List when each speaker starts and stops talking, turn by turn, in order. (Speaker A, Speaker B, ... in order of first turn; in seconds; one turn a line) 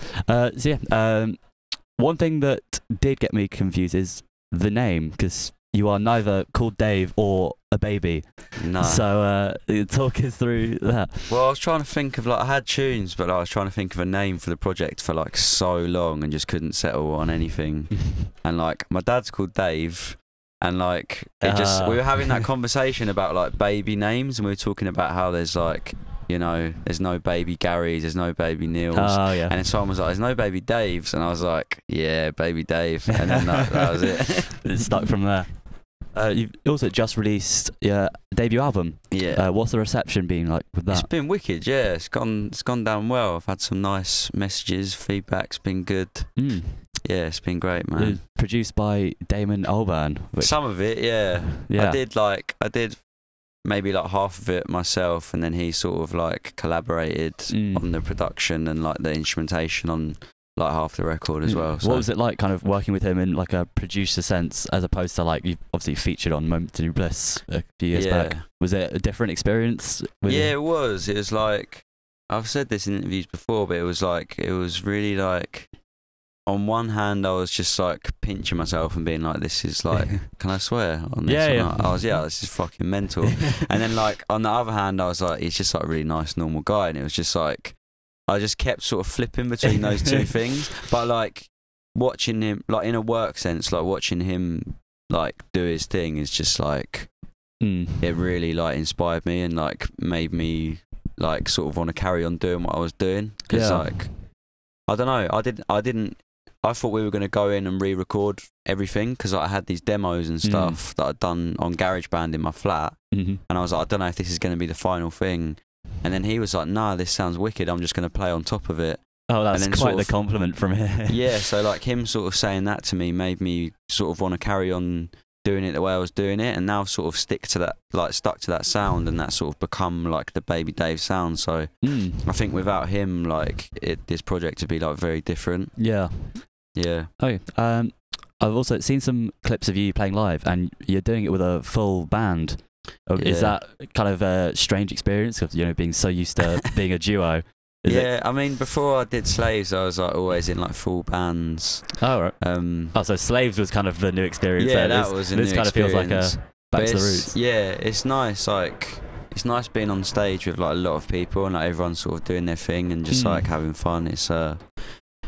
Speaker A: 0.3-11.3
Speaker B: 8.6-9.1
Speaker B: 11.3-35.1
Speaker A: 21.4-22.5
Speaker A: 28.9-29.6
Speaker A: 33.3-33.6
Speaker A: 34.6-41.1
Speaker B: 39.1-39.5
Speaker B: 40.9-48.2
Speaker A: 46.4-47.0
Speaker A: 48.0-52.0
Speaker B: 50.4-53.0
Speaker B: 53.6-62.1
Speaker A: 57.5-58.0
Speaker A: 61.5-70.5
Speaker B: 67.9-68.4
Speaker B: 70.2-75.8
Speaker B: 76.5-97.1
Speaker A: 81.3-82.4
Speaker A: 97.6-98.2
Speaker B: 98.0-104.3
Speaker A: 103.5-104.0
Speaker B: 104.9-120.2
Speaker A: 110.4-110.8
Speaker A: 113.1-113.4
Speaker A: 119.3-121.4
Speaker B: 121.1-135.9
Speaker A: 131.8-132.3
Speaker A: 135.8-136.6
Speaker B: 136.8-137.1
Speaker A: 137.2-148.1
Speaker B: 143.2-143.6
Speaker B: 147.9-153.0
Speaker A: 152.0-157.4
Speaker B: 154.6-164.9
Speaker A: 163.1-163.5